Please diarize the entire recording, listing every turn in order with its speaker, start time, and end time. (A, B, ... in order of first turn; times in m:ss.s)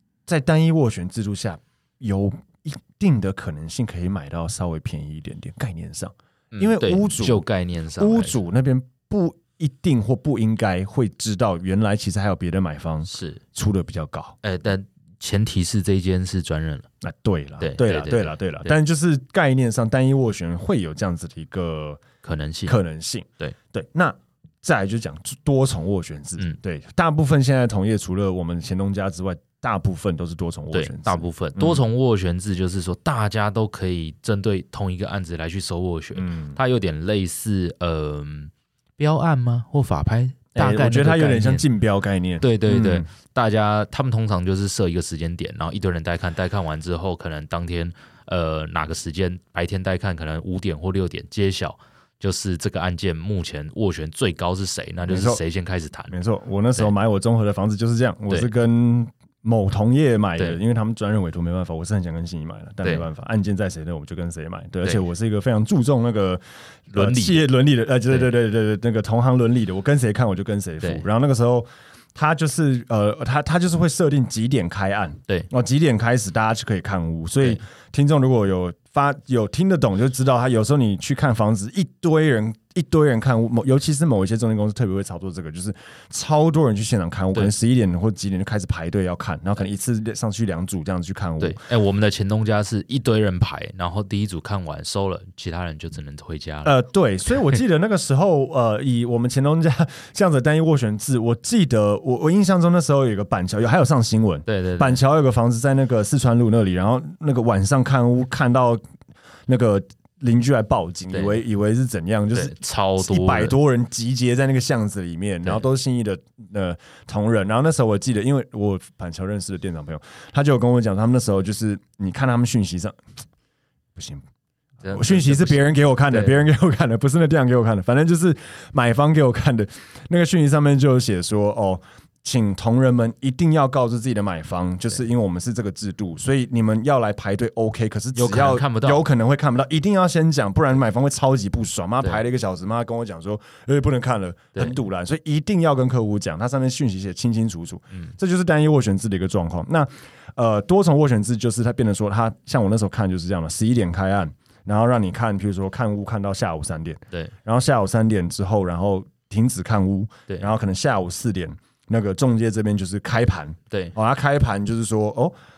0:00.3-0:07.4 A
0:06.5-0:08.4 B
0:08.0-0:14.4 A
0:13.1-0:13.4 B
0:14.4-0:16.9 B
0:17.0-0:22.0 A
0:17.6-0:18.7 B
0:22.2-0:22.8 B
0:22.7-0:31.8 A
0:30.7-0:41.6 B
0:36.2-0:36.6 A
0:40.6-0:43.1 A
0:42.4-0:56.2 B
0:55.1-0:55.4 A
0:56.1-1:31.6 A
1:06.9-1:07.5 B
1:31.4-1:36.7 B
1:36.6-1:48.8 A
1:44.5-1:45.0 B
1:49.5-2:03.0 A
1:51.1-1:51.4 B
1:52.3-1:53.6 B
2:04.0-2:04.2 A
2:04.8-2:06.4 B
2:04.9-2:45.3 A
2:18.2-2:19.1 B